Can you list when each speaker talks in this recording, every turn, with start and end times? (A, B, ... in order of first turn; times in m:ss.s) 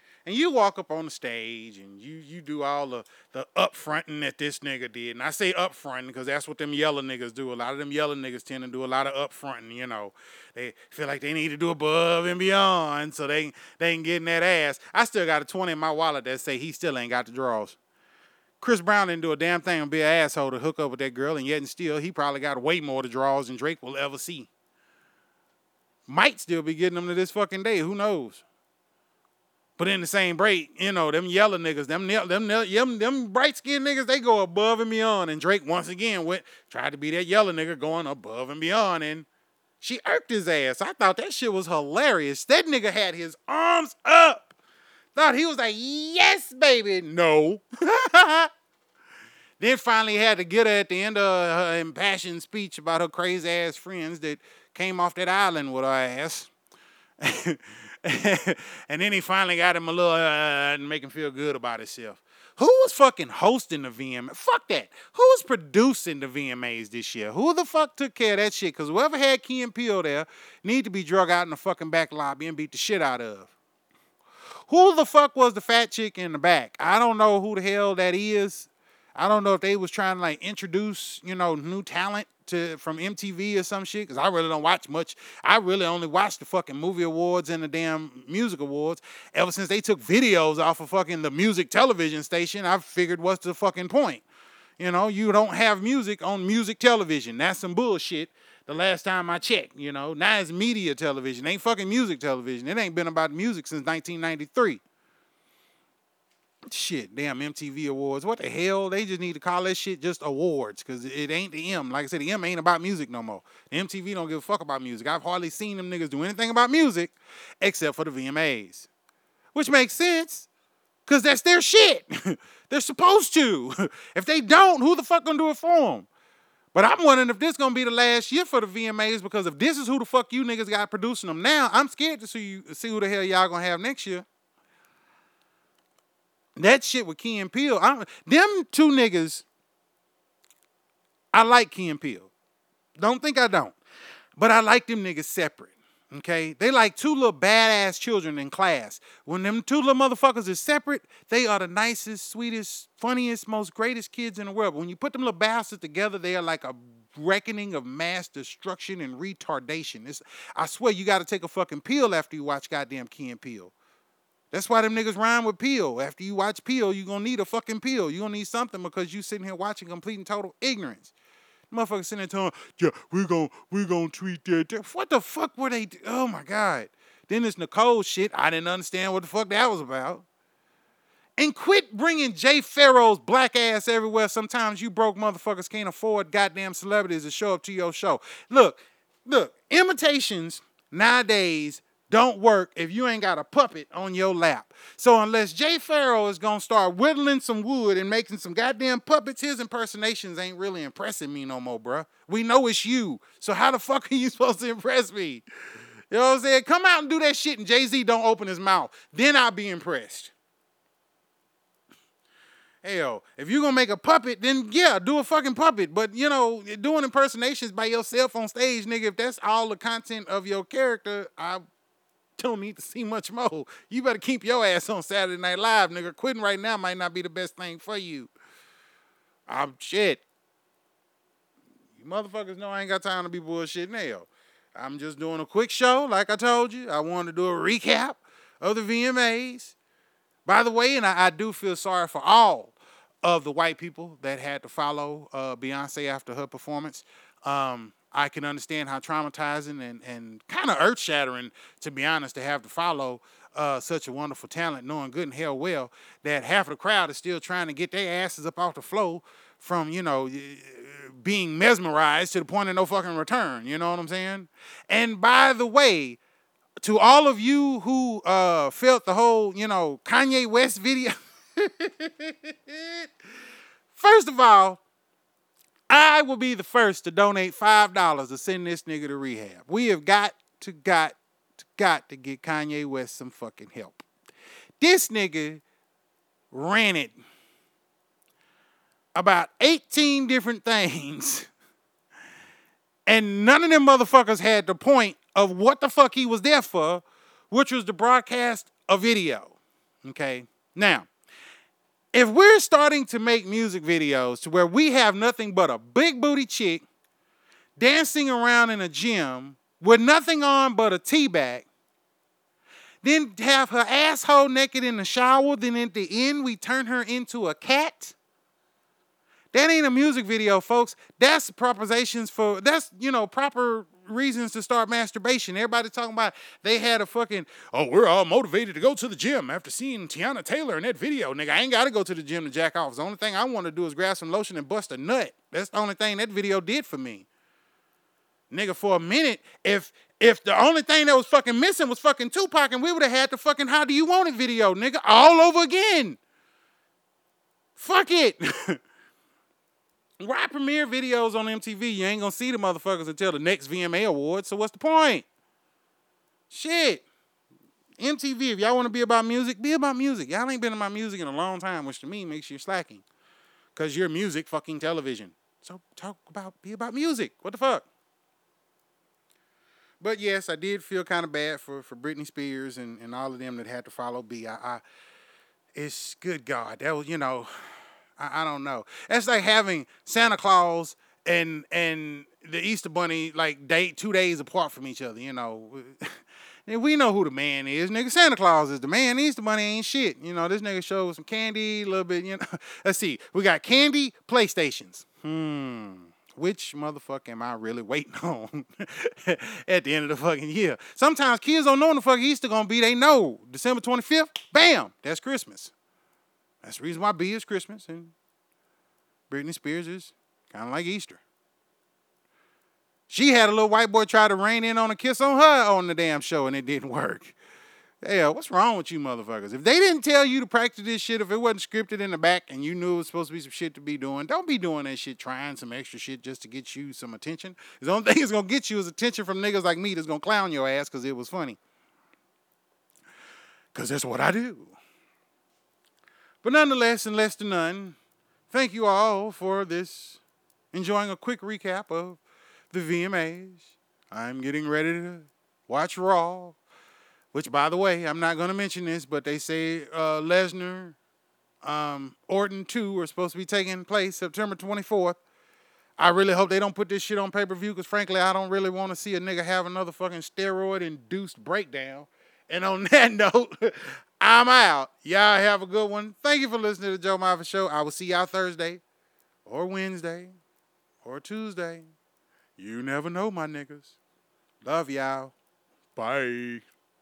0:00.3-0:17.8 A
0:18.6-0:24.5 A
0:26.1-0:28.4 A
0:29.8-0:39.3 A
0:39.8-0:44.5 A
0:45.2-0:48.5 A
0:49.6-0:56.5 A
0:57.2-1:13.5 A
1:14.7-1:34.2 A
1:34.8-1:44.8 A
1:46.7-1:58.9 A
1:59.5-2:00.5 A
2:01.1-2:06.1 A
2:06.7-2:14.3 A
2:16.6-2:19.5 A
2:21.3-2:22.3 A
2:23.0-2:23.8 A
2:24.4-2:43.7 A
2:44.5-2:51.1 A
2:51.7-3:00.2 A
3:01.4-3:25.4 A
3:26.1-3:30.3 A
3:32.8-3:41.6 A
3:42.4-3:48.3 A
3:49.5-3:50.2 A
3:52.0-3:59.8 A
4:00.5-4:26.2 A
4:26.8-4:33.1 A
4:33.9-4:34.8 A
4:35.9-4:44.1 A
4:44.8-4:45.6 A
4:46.5-4:47.2 A
4:49.2-4:51.5 A
4:53.1-5:01.1 A
5:02.1-5:06.9 A
5:07.8-5:11.7 A
5:13.0-5:18.2 A
5:19.5-5:37.3 A
5:38.5-5:46.2 A
5:47.8-5:48.8 A
5:50.2-5:55.3 A
5:56.5-5:57.0 A
5:58.0-6:03.0 A
6:03.8-6:07.9 A
6:10.0-6:14.8 A
6:15.8-6:17.5 A
6:18.2-6:45.7 A
6:46.6-6:48.2 A
6:49.3-6:51.2 A
6:53.1-6:57.4 A
6:58.0-7:11.6 A
7:13.7-7:14.8 A
7:16.4-7:18.0 A
7:18.5-7:20.2 A
7:20.7-7:22.2 A
7:22.7-7:26.6 A
7:27.3-7:31.0 A
7:31.6-7:35.2 A
7:36.0-7:48.8 A
7:49.5-7:50.4 A
7:51.0-7:51.9 A
7:52.6-7:54.0 A
7:54.6-7:55.3 A
7:56.0-7:56.6 A